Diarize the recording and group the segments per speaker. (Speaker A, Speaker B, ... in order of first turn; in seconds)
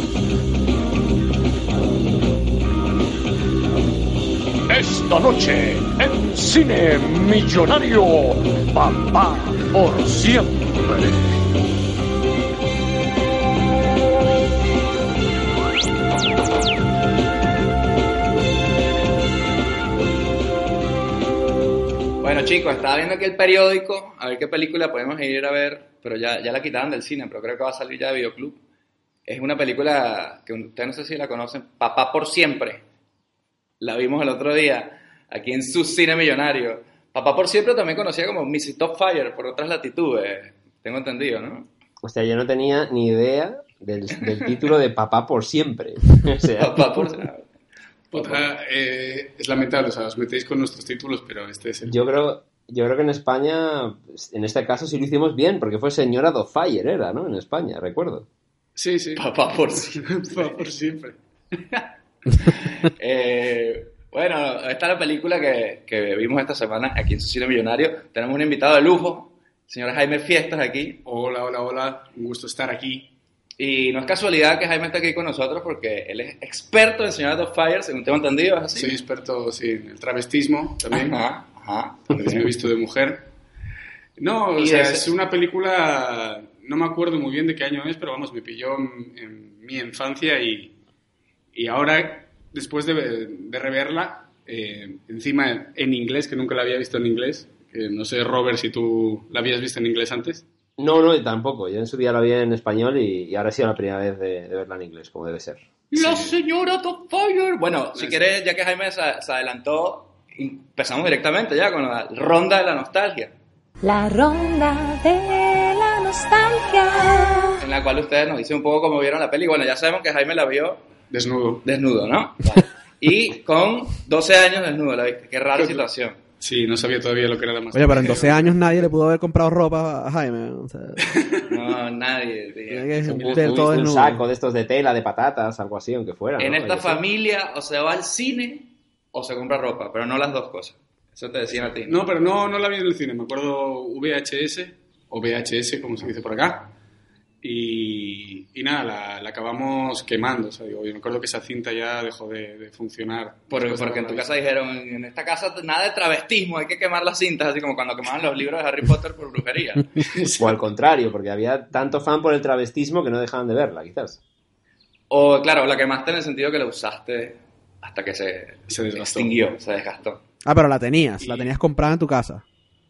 Speaker A: 4.7-11.1
Speaker B: 22.2-28.6, 29.3-32.8, 33.8-41.7, 46.6-47.5, 48.1-48.5, 59.2-60.5, 62.5-71.0, 73.6-79.0, 80.9-82.5, 84.6-85.1, 105.9-113.3, 117.6-120.8, 121.7-126.2, 131.5-133.1, 136.4-142.1, 153.5-160.1, 165.1-170.2
Speaker C: 42.0-46.8, 51.9-58.3, 100.8-106.0, 133.1-137.0, 160.4-164.2
Speaker D: 48.1-52.0, 58.8-59.2, 59.9-61.9, 71.0-73.1, 78.8-81.2, 82.1-83.3, 84.2-90.7, 91.5-100.5, 121.1-121.6, 125.5-125.8, 126.4-128.8, 131.1-131.4, 133.1-133.7, 141.6-146.7, 147.4-154.3, 160.0-160.6, 168.7-169.6, 171.2-171.5
Speaker E: 113.8-117.6
Speaker F: 127.7-131.0, 132.7-134.2, 170.4-172.4